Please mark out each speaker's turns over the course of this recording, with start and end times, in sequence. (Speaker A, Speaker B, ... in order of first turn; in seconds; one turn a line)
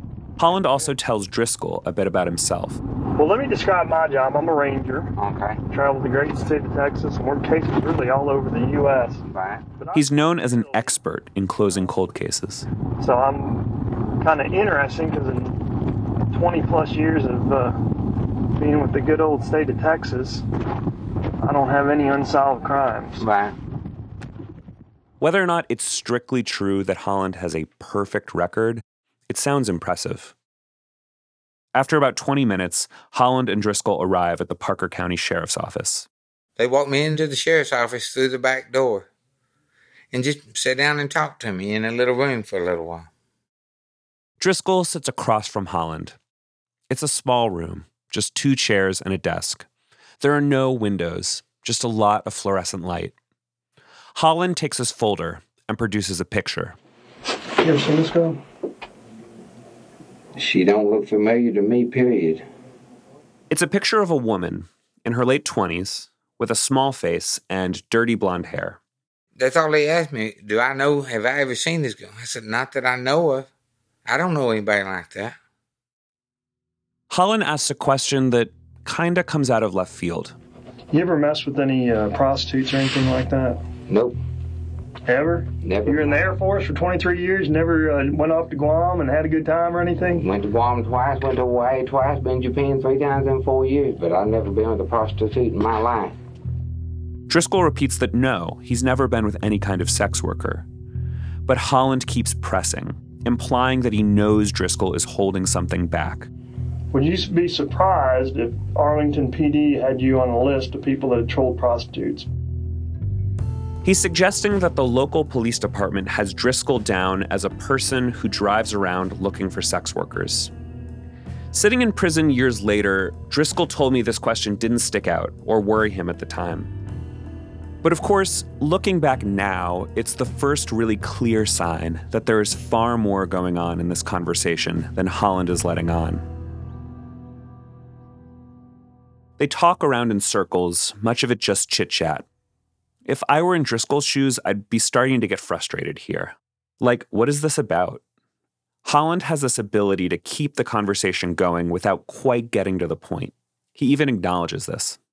Speaker A: 0.4-2.8
Speaker B: 3.1-5.1
Speaker C: 5.2-5.6
Speaker B: 5.7-9.2
Speaker C: 9.3-9.6
Speaker B: 9.8-10.9
Speaker A: 9.9-12.7
Speaker B: 13.0-15.8
Speaker B: 16.3-17.8
Speaker B: 18.5-20.4
Speaker B: 21.4-23.2
Speaker C: 23.2-23.5
Speaker A: 25.2-30.3
Speaker A: 31.7-36.1
Speaker C: 36.6-39.1
Speaker C: 40.1-43.1
Speaker A: 44.4-46.2
Speaker A: 46.9-49.6
Speaker A: 50.2-53.1
Speaker A: 54.1-56.8
Speaker B: 57.6-58.4
Speaker C: 60.4-62.4
Speaker A: 63.5-68.8
Speaker C: 69.4-73.5
Speaker C: 74.0-75.3
Speaker A: 77.1-80.3
Speaker B: 80.9-83.6
Speaker C: 83.9-84.2
Speaker B: 85.1-90.2
Speaker C: 85.6-86.3
Speaker C: 90.2-96.1
Speaker A: 97.3-100.7
Speaker A: 101.5-106.3
Speaker B: 106.9-112.3
Speaker A: 113.8-120.5
Speaker A: 121.5-126.7
Speaker A: 127.8-136.2
Speaker A: 139.4-142.2
Speaker A: 143.0-148.0
Speaker A: 148.8-155.0